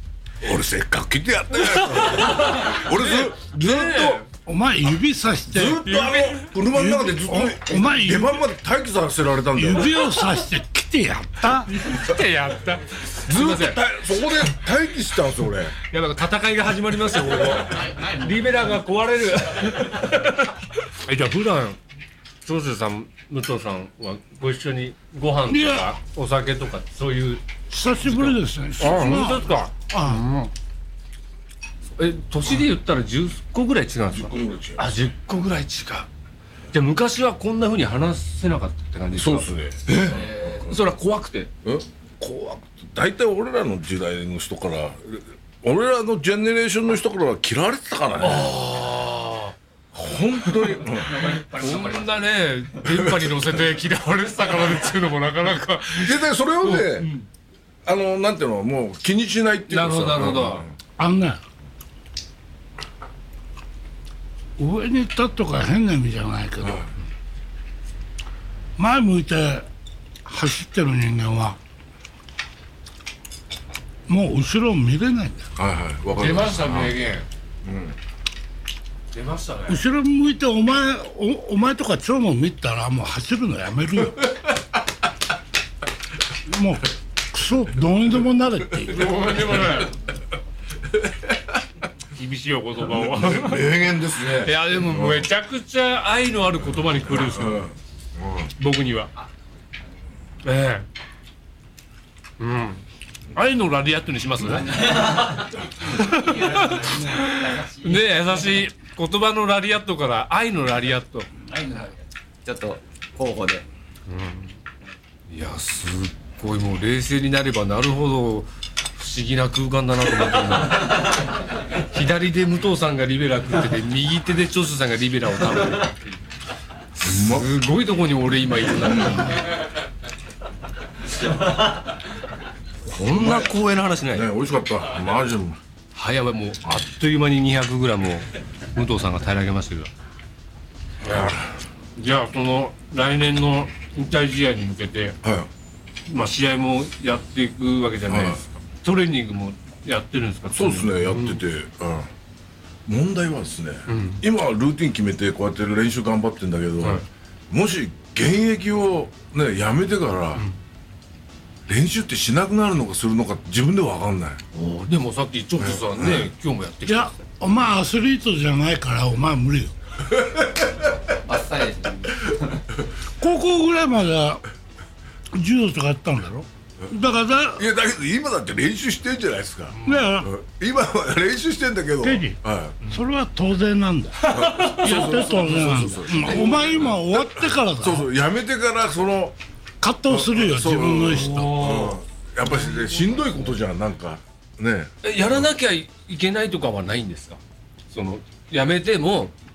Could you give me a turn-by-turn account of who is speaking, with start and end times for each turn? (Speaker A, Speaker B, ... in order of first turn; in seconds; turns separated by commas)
Speaker A: 0.4-4.2, Speaker B: 1.5-4.3, Speaker C: 4.5-5.9, Speaker A: 5.5-10.1, Speaker B: 5.8-6.5, Speaker C: 6.7-8.4, Speaker C: 9.5-11.7, Speaker B: 11.5-13.8, Speaker A: 13.3-15.8, Speaker B: 15.9-21.8, Speaker B: 22.4-27.5, Speaker C: 25.5-25.9, Speaker C: 27.7-30.3, Speaker B: 28.0-30.5, Speaker B: 32.0-36.1, Speaker A: 34.1-34.8, Speaker B: 36.7-41.5, Speaker A: 39.1-40.8, Speaker A: 41.6-48.6, Speaker B: 48.2-49.5, Speaker A: 49.9-51.3, Speaker B: 50.5-57.3, Speaker D: 51.0-52.3, Speaker A: 52.9-53.5, Speaker A: 56.0-57.1, Speaker A: 57.9-60.8, Speaker B: 59.7-60.7, Speaker C: 61.0-61.4, Speaker C: 64.6-66.9, Speaker A: 66.6-66.9, Speaker C: 68.8-69.7, Speaker C: 70.2-71.6, Speaker C: 74.1-75.5, Speaker A: 75.6-77.0, Speaker B: 76.1-77.3, Speaker A: 77.7-78.0, Speaker B: 79.1-79.8, Speaker C: 79.7-84.3, Speaker C: 86.5-89.1, Speaker B: 88.8-90.0, Speaker B: 92.2-97.7, Speaker A: 93.0-95.3, Speaker A: 96.8-98.5, Speaker B: 98.6-99.1, Speaker B: 100.4-100.9, Speaker B: 102.4-102.8, Speaker B: 103.3-111.3, Speaker D: 104.7-108.6, Speaker D: 111.5-113.7, Speaker B: 114.1-114.5, Speaker B: 115.3-126.2, Speaker B: 127.0-129.5, Speaker A: 127.0-127.5, Speaker B: 132.9-134.3, Speaker A: 133.0-133.5, Speaker A: 134.1-135.6, Speaker B: 135.9-139.9, Speaker B: 141.0-141.4, Speaker A: 141.0-141.6, Speaker B: 142.0-145.2, Speaker A: 145.2-145.5, Speaker B: 146.1-151.4, Speaker A: 148.1-148.4, Speaker A: 150.5-152.1, Speaker A: 152.9-160.4, Speaker B: 153.9-154.2, Speaker A: 161.7-164.4, Speaker B: 164.5-167.1, Speaker A: 165.6-166.3, Speaker C: 166.9-169.7, Speaker A: 170.1-170.9, Speaker D: 171.2-172.7, Speaker C: 173.2-174.4, Speaker C: 175.3-177.7, Speaker A: 177.6-182.8, Speaker B: 179.8-180.1, Speaker C: 179.8-180.3, Speaker C: 182.0-188.1, Speaker B: 184.3-186.4, Speaker A: 184.3-189.4, Speaker C: 189.8-191.7, Speaker A: 190.1-194.9, Speaker B: 191.1-193.5, Speaker B: 195.0-197.4, Speaker B: 197.9-199.3